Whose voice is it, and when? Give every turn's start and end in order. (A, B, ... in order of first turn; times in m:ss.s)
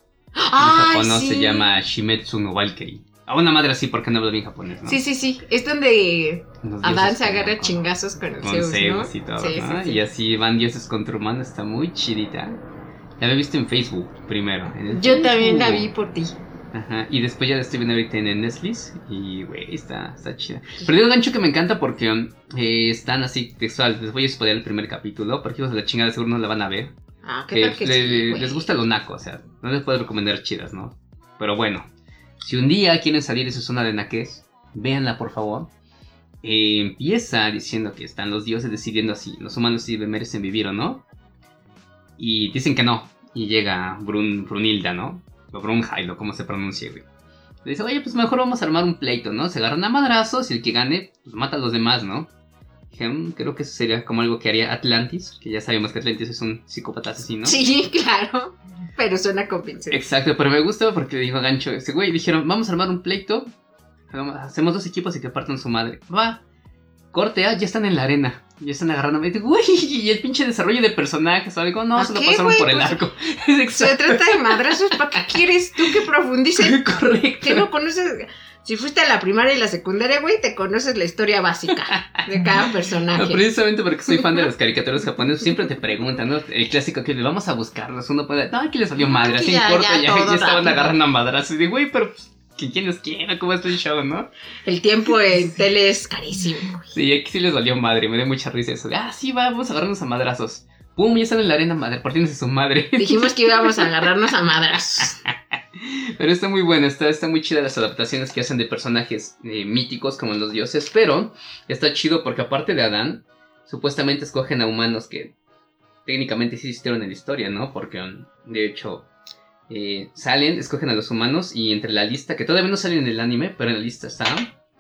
0:00.4-0:01.8 A
0:00.6-0:05.0 B
0:04.9-0:10.0 A
0:06.6-0:07.8 B
0:08.4-0:12.6 B
0:13.2-0:15.9 B
0:14.9-0:16.4 A
0:16.7-0:27.0 B
0:27.2-0:28.7 A
0:27.5-0:31.9 B
0:32.4-0:35.7 B
0:36.4-0:41.0 B
0:42.2-0:47.0 B
0:47.6-0:52.3 B
0:52.9-0:57.6 B
0:57.4-1:00.0 A
0:59.9-1:03.5 B
1:04.1-1:06.4 B
1:07.1-1:16.0 B
1:12.0-1:13.0 A
1:13.7-1:16.9 A
1:16.6-1:17.7 B
1:17.4-1:23.5 A
1:21.9-1:22.2 B
1:23.1-1:34.3 B
1:29.0-1:31.0 A
1:34.6-1:36.9 A
1:36.9-1:44.0 B
1:43.0-1:45.2 A
1:45.0-1:55.3 B
1:56.1-1:59.1 B
1:59.7-2:04.5 B